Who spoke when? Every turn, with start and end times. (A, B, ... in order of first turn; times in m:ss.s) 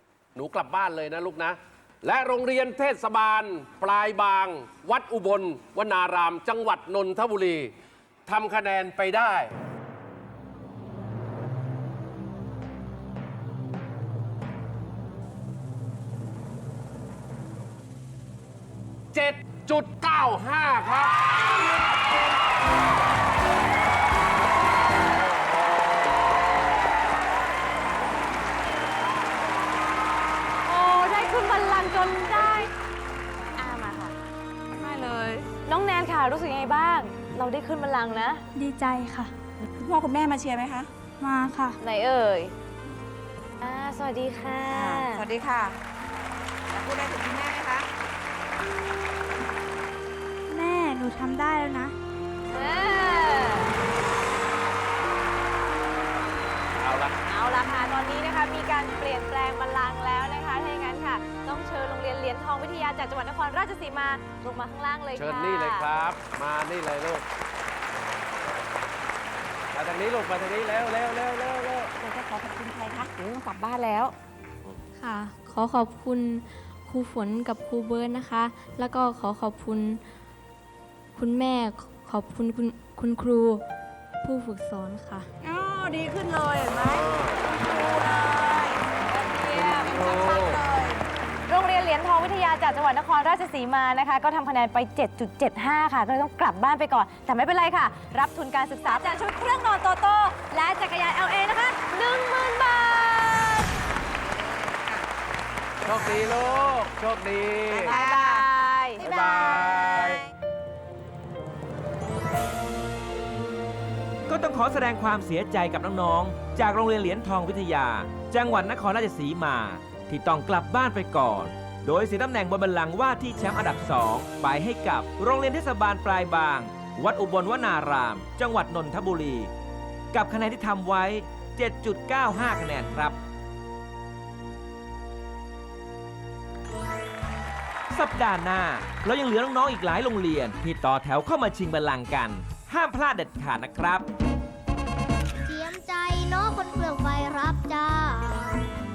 0:00.4-0:07.7 A
0:08.3-0:09.5 A
0:19.1-0:21.1 A
0:30.7-0:32.7 B
0:33.6-0:34.1 B
0:34.8-0:35.5 C
0:35.6-0:38.4 B
0:38.6-0:39.3 D
0:39.7-0:40.9 C
0:41.2-0:41.8 D
0:41.8-0:42.5 B
0:43.6-0:45.2 B
0:44.7-0:45.8 C
0:46.7-0:47.9 C
0:50.5-0:52.0 D
0:52.5-0:53.7 B
0:56.8-0:57.2 A
0:57.3-1:05.9 B
1:05.2-1:07.2 A
1:09.7-1:11.9 A
1:12.0-1:14.2 C
1:15.0-1:20.0 E
1:21.2-1:23.6 E
1:24.2-1:25.3 E
1:25.4-1:28.8 C
1:29.1-1:30.0 B
1:29.5-1:31.0 C
1:30.0-1:30.6 A
1:31.5-1:43.7 B
1:45.9-1:48.0 A
1:45.9-1:46.3 C
1:47.7-1:48.5 C
1:47.8-1:49.4 B
1:49.0-1:50.0 C
1:49.0-1:50.2 A
1:54.3-2:09.5 F
2:10.1-2:13.2 F
2:17.9-2:24.1 F
2:25.4-2:28.6 G